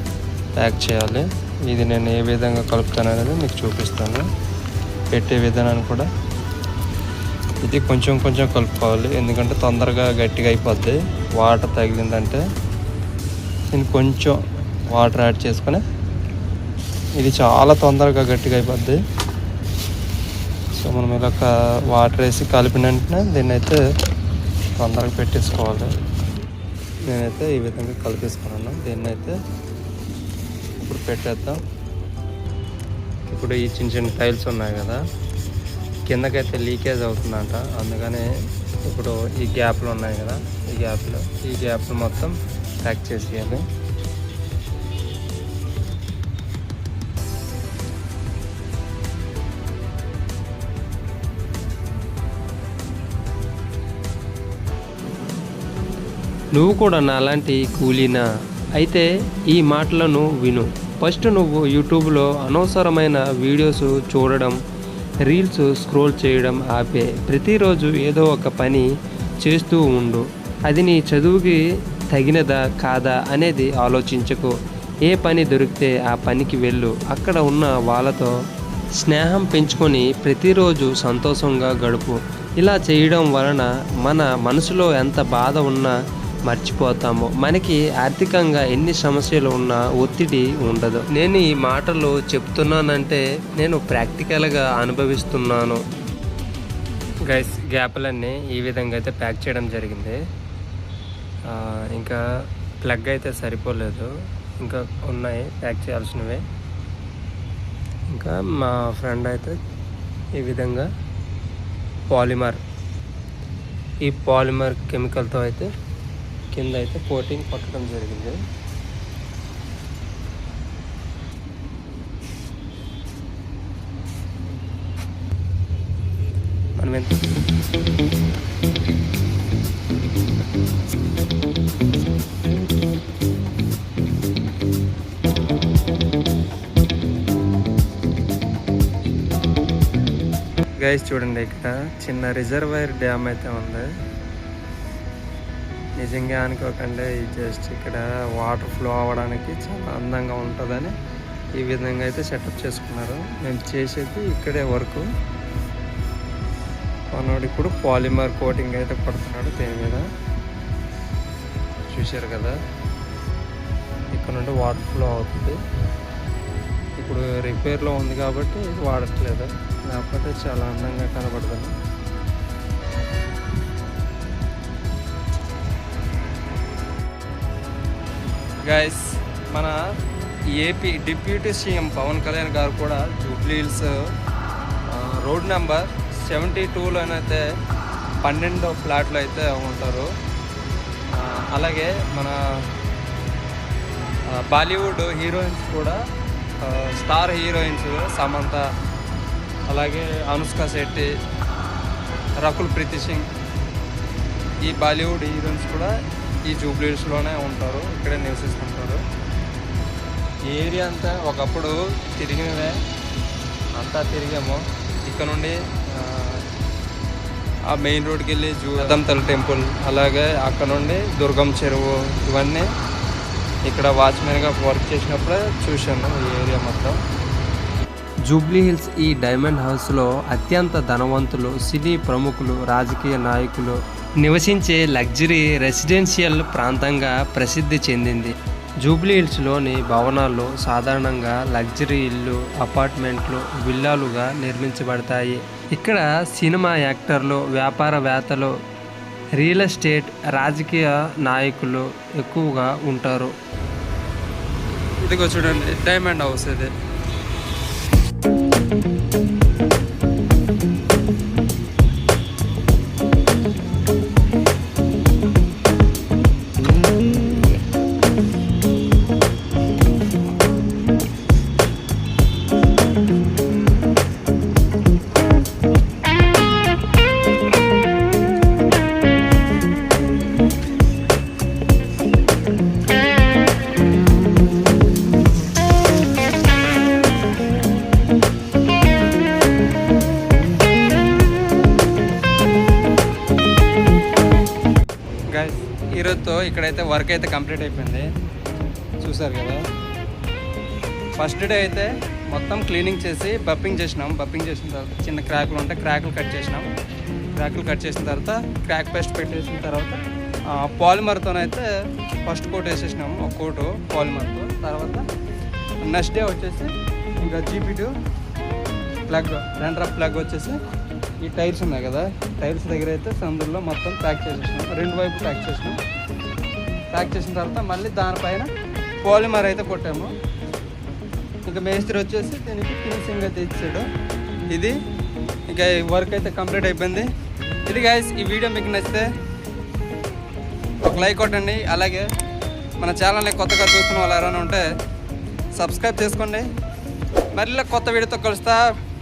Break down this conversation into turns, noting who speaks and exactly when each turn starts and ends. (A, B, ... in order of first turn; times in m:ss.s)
0:00.6-0:04.2 A
0:05.1-0:06.1 A
0:07.6-0:12.4 A
0:13.7-0:14.4 A
0:14.9-0:15.8 A
0:17.2-0:19.0 A
0:20.8-0:23.8 A
0:24.8-0:25.9 A
0:27.1-0:29.4 A
0:30.8-0:31.6 A
0:33.3-0:35.0 A
0:36.1-0:38.2 A
0:38.9-0:43.6 A
0:56.6-0:58.2 B
0:58.8-1:04.5 B
1:05.3-1:08.8 B
1:05.4-1:07.0 A
1:09.4-1:11.6 B
1:10.9-1:11.5 A
1:12.2-1:14.5 B
1:15.1-1:18.3 B
1:19.0-1:25.9 B
1:26.5-1:35.8 B
1:37.3-1:40.2 A
1:41.5-1:42.2 A
1:42.9-1:44.1 A
1:44.6-1:46.4 A
1:48.2-1:49.6 A
1:50.4-1:50.8 A
1:52.1-1:52.6 A
1:54.1-1:55.7 A
1:56.6-1:58.4 A
2:06.8-2:07.1 A
2:20.8-2:23.9 A
2:26.0-2:30.9 A
2:31.6-2:35.1 A
2:37.1-2:40.0 A
2:41.9-2:42.6 A
2:44.1-2:45.6 A
2:47.0-2:51.7 A
2:58.7-2:59.8 A
3:00.6-3:04.0 A
3:04.9-3:07.4 A
3:08.2-3:10.1 A
3:11.1-3:12.4 A
3:14.4-3:16.0 A
3:16.6-3:18.6 A
3:19.7-3:21.1 A
3:22.4-3:23.3 A
3:24.6-3:25.9 A
3:26.5-3:29.0 A
3:30.5-3:32.8 A
3:33.8-3:36.4 A
3:37.7-3:42.7 A
3:43.7-3:47.0 A
3:48.3-3:53.4 B
3:48.5-3:49.9 A
3:50.5-3:53.8 A
3:54.3-3:57.9 B
3:54.3-3:58.3 A
3:58.9-4:02.6 B
3:58.9-4:05.4 A
4:03.5-4:08.5 B
4:06.6-4:07.1 A
4:09.4-4:13.3 B
4:15.0-4:16.7 A
4:55.3-4:58.1 A
4:59.0-4:59.6 A
5:01.2-5:06.7 A
5:07.4-5:10.0 A
5:10.6-5:11.7 A
5:12.3-5:15.0 A
5:15.8-5:17.9 A
5:19.1-5:20.6 A
5:21.2-5:25.8 A
5:26.9-5:28.5 A
5:29.0-5:30.1 A
5:31.4-5:33.8 A
5:35.5-5:37.1 A
5:37.7-5:39.1 A
5:40.8-5:42.1 A
5:42.8-5:44.7 A
5:45.6-5:46.5 A
5:47.3-5:48.6 A